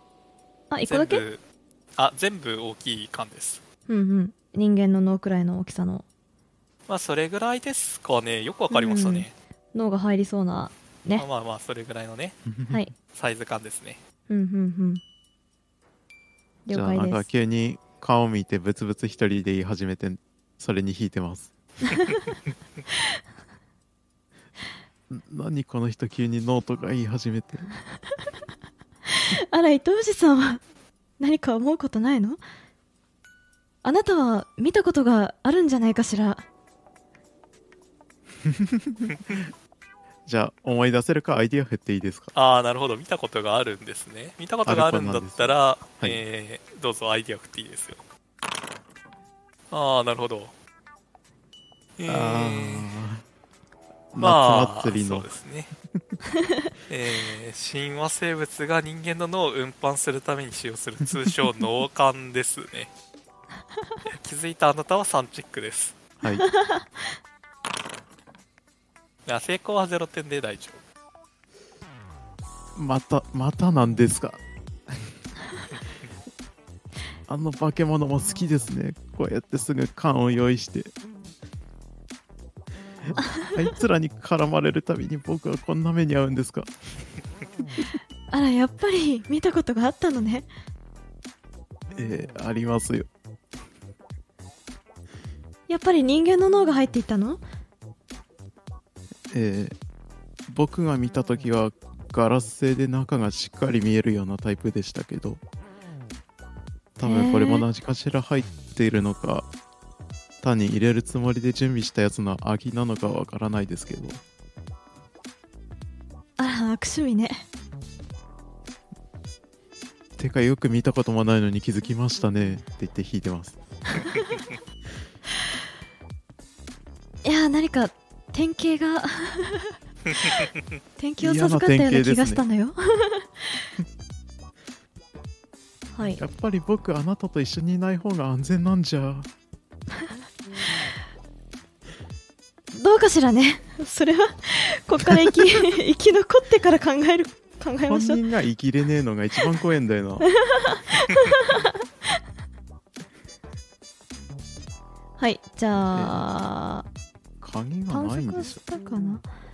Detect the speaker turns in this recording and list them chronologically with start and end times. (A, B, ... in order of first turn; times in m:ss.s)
0:00.7-0:01.2 A
0:00.9-0:01.4 B
0:02.0-0:03.6 B
0:03.9-0:06.0 A
0:06.9-0:09.3 B
0:08.7-0:11.2 A
0:11.2-0:12.4 B
0:12.4-0:12.8 C
0:13.1-0:14.0 B
0:14.3-0:15.0 A
0:16.6-0:17.3 A
0:16.7-0:21.5 C
0:21.9-0:22.1 A
0:25.1-0:27.7 C
0:29.1-0:30.6 A
0:31.2-0:32.4 A
0:33.8-0:36.4 A
0:38.4-0:39.2 C
0:39.1-0:39.4 B
0:40.2-0:42.3 C
0:42.3-0:48.0 B
0:44.6-0:46.2 C
0:49.7-0:50.5 B
0:52.0-0:52.9 B
0:52.1-0:53.2 C
0:54.1-0:55.3 C
0:54.2-0:55.7 B
0:56.9-1:02.9 B
1:04.2-1:06.0 B
1:06.4-1:07.0 A
1:09.2-1:10.8 B
1:12.7-1:15.1 C
1:17.3-1:20.9 C
1:23.1-1:26.7 C
1:28.3-1:30.5 A
1:31.9-1:33.1 C
1:35.7-1:37.4 A
1:39.3-1:39.8 C
1:40.5-1:45.4 C
1:47.0-1:49.5 C
1:47.0-1:47.7 A
1:50.4-1:54.2 C
1:56.4-1:57.4 A
2:00.2-2:03.6 C
2:07.2-2:09.7 A
2:11.0-2:13.7 A
2:11.2-2:12.4 C
2:15.9-2:16.2 A
2:16.1-2:19.3 C
2:22.7-2:28.2 A
2:27.9-2:30.3 C
2:30.2-2:31.7 A
2:35.2-2:36.8 A
2:35.9-2:36.3 C
2:37.4-2:38.6 C
2:37.9-2:39.2 A